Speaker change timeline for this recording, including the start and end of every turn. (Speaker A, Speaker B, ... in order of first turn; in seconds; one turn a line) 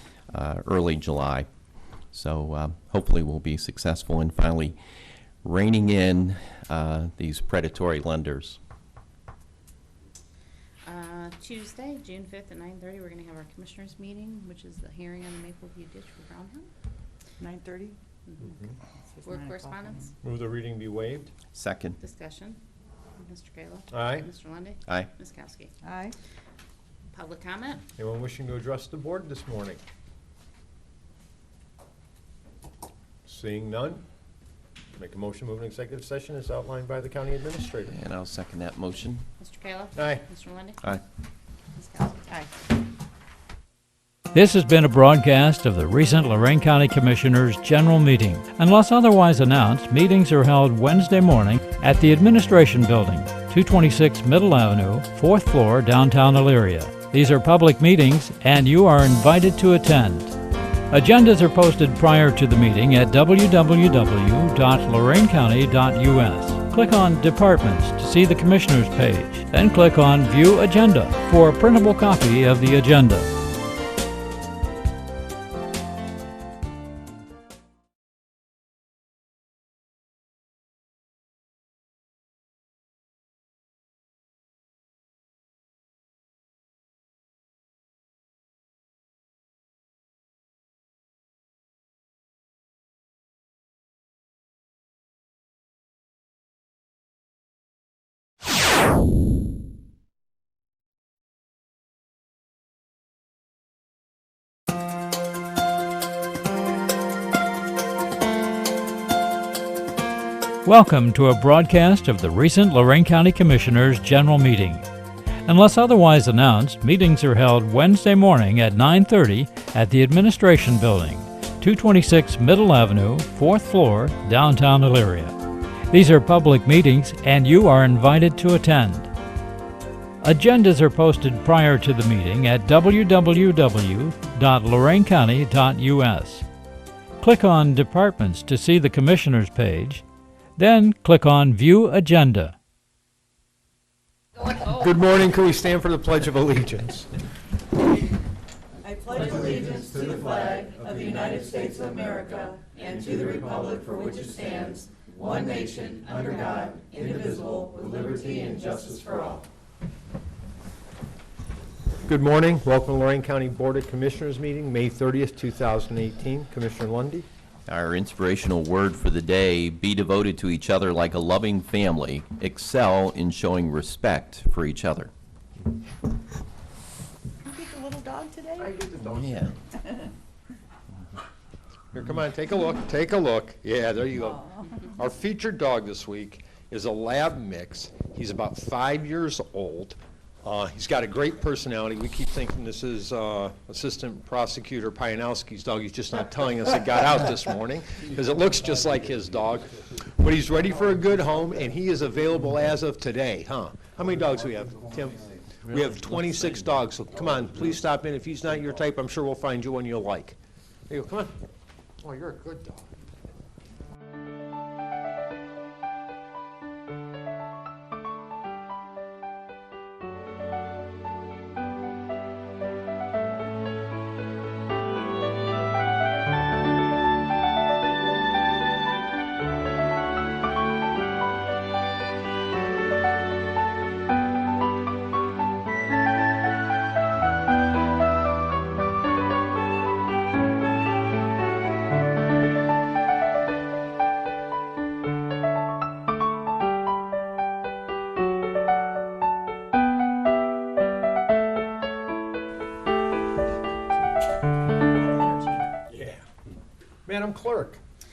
Speaker A: 0.3-1.5
Speaker A: 2.1-4.8
Speaker A: 5.4-8.6
Speaker B: 10.8-16.7
Speaker C: 17.4-18.0
Speaker B: 18.2-18.6
Speaker C: 19.2-20.1
Speaker B: 19.2-20.1
Speaker D: 20.2-21.3
Speaker A: 21.5-22.0
Speaker B: 22.0-22.6
Speaker B: 23.2-25.7
Speaker D: 23.9-24.3
Speaker C: 25.8-26.1
Speaker B: 27.1-27.9
Speaker D: 28.0-29.8
Speaker D: 33.2-34.0
Speaker D: 35.0-37.9
Speaker A: 37.9-39.2
Speaker B: 39.4-40.9
Speaker D: 40.0-40.2
Speaker B: 41.7-42.2
Speaker E: 44.3-60.4
Speaker E: 60.9-73.3
Speaker E: 110.6-114.8
Speaker E: 115.5-125.3
Speaker E: 125.9-129.1
Speaker E: 130.2-136.4
Speaker E: 137.2-140.0
Speaker E: 140.6-142.5
Speaker D: 144.4-147.1
Speaker C: 148.8-159.4
Speaker D: 162.0-167.2
Speaker A: 167.7-175.1
Speaker C: 177.4-178.8
Speaker A: 179.0-179.6
Speaker D: 181.9-210.4
Speaker D: 210.9-211.3
Speaker D: 212.0-212.9
Speaker C: 254.9-255.6
Speaker D: 255.9-256.2
Speaker D: 257.1-257.8